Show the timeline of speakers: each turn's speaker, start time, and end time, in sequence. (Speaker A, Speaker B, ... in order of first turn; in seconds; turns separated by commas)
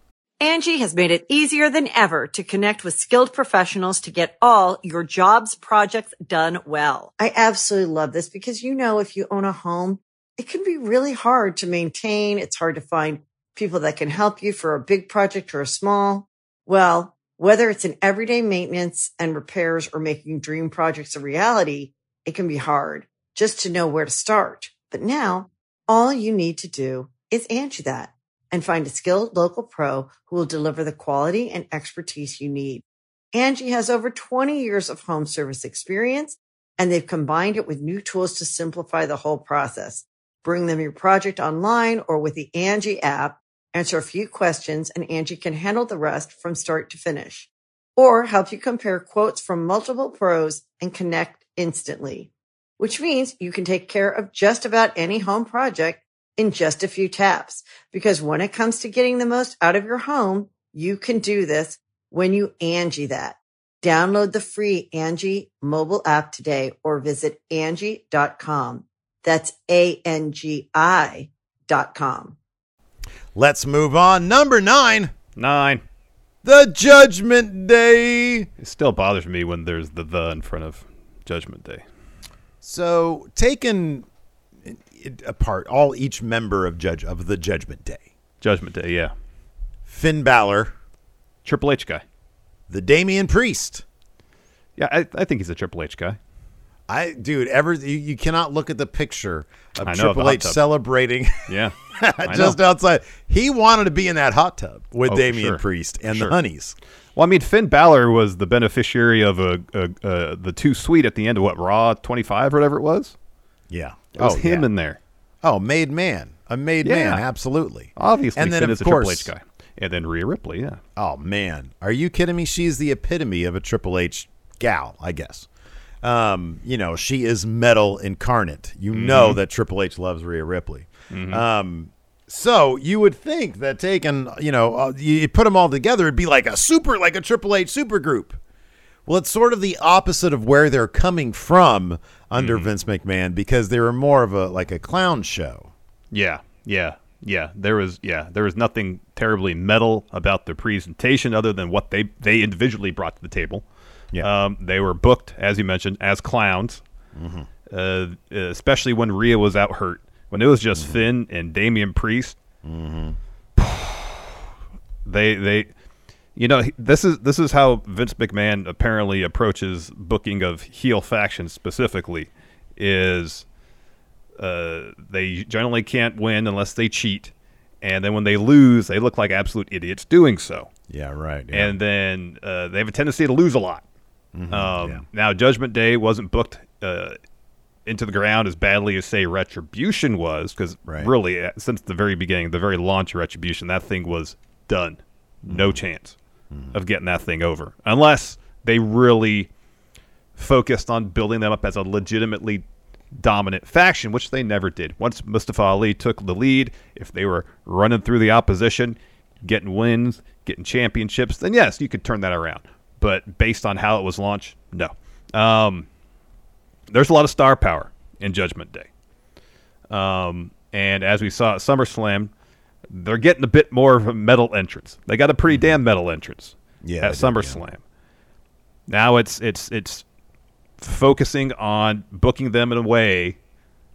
Speaker A: 0.4-72.3, Speaker B: 73.3-75.1, Speaker C: 75.3-75.8, Speaker B: 76.4-78.5, Speaker C: 78.6-81.8, Speaker B: 82.6-84.0, Speaker B: 84.7-88.0, Speaker C: 88.4-89.1, Speaker B: 89.9-90.7, Speaker C: 91.4-92.0, Speaker B: 92.7-93.8, Speaker C: 94.8-96.2, Speaker B: 96.9-106.8, Speaker C: 99.8-100.6, Speaker C: 101.5-102.6, Speaker C: 105.1-106.3, Speaker C: 107.2-113.1, Speaker B: 113.7-114.7, Speaker C: 114.1-115.0, Speaker B: 115.4-119.3, Speaker C: 116.8-117.2, Speaker C: 118.0-120.8, Speaker B: 121.0-125.5, Speaker B: 126.0-138.4, Speaker C: 128.9-129.4, Speaker C: 131.1-131.4, Speaker B: 139.1-145.7, Speaker C: 142.3-142.7, Speaker C: 146.1-153.6, Speaker C: 154.2-156.8, Speaker B: 157.2-157.5, Speaker C: 157.7-162.4, Speaker B: 160.8-161.0, Speaker B: 162.6-163.2, Speaker C: 163.6-164.4, Speaker C: 165.0-165.7, Speaker C: 166.3-173.4, Speaker C: 174.4-180.7, Speaker B: 180.9-181.8, Speaker C: 181.5-183.8, Speaker B: 184.3-185.0, Speaker C: 184.5-187.2, Speaker C: 187.8-196.2, Speaker B: 190.8-191.1, Speaker B: 195.5-195.8, Speaker C: 196.7-199.5, Speaker C: 200.4-202.6, Speaker C: 203.1-215.9, Speaker C: 216.9-218.9, Speaker C: 219.9-222.3, Speaker C: 222.9-227.8, Speaker B: 225.5-225.8, Speaker B: 226.8-227.6, Speaker C: 228.9-230.0, Speaker C: 230.8-233.4